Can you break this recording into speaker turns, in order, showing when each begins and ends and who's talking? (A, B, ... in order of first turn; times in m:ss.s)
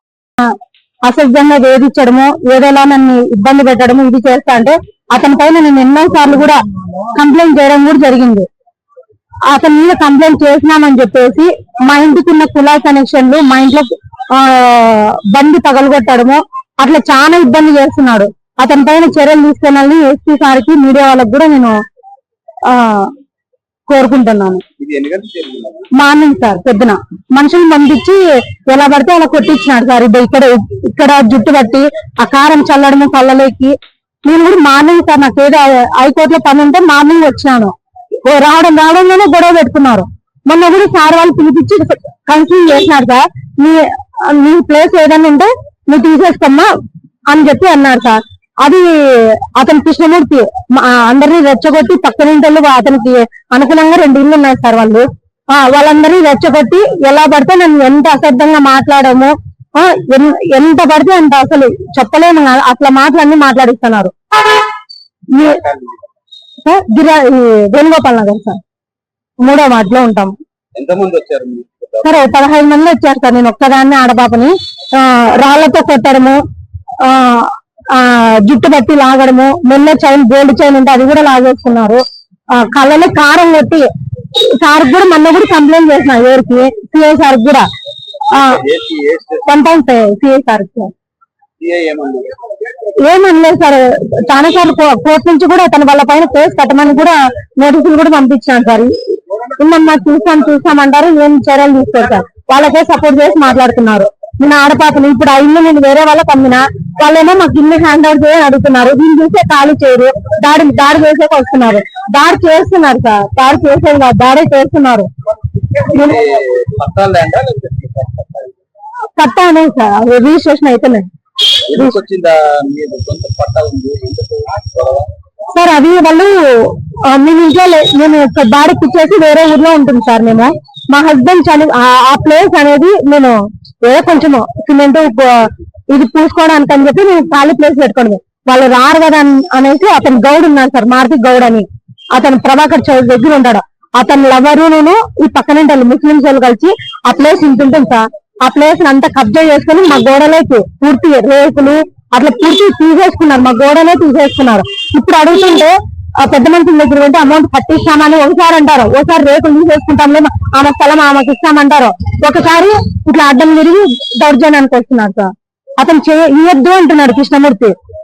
0:01.0-0:06.6 A
0:07.1-0:08.5 A
0:09.5-0:21.8 A
0:22.6-0:23.1 A
0:23.9-0:24.6 A
0:24.8-0:25.9 B
0:26.0-0:37.7 A
0:38.2-0:46.7 A
0:47.3-1:04.1 A
1:05.3-1:05.6 A
1:05.6-1:05.9 B
1:06.6-1:08.6 A
1:09.4-1:10.3 A
1:10.7-1:12.2 B
1:12.0-1:16.4 A
1:17.0-1:22.0 A
1:22.5-1:27.6 A
1:28.3-1:28.6 A
1:28.4-1:29.4 B
1:29.5-1:30.9 A
1:31.6-1:32.3 B
1:33.0-1:39.0 A
1:39.6-1:55.1 A
1:55.8-1:58.5 B
1:59.2-2:01.1 A
2:01.7-2:05.1 B
2:05.5-2:47.7 A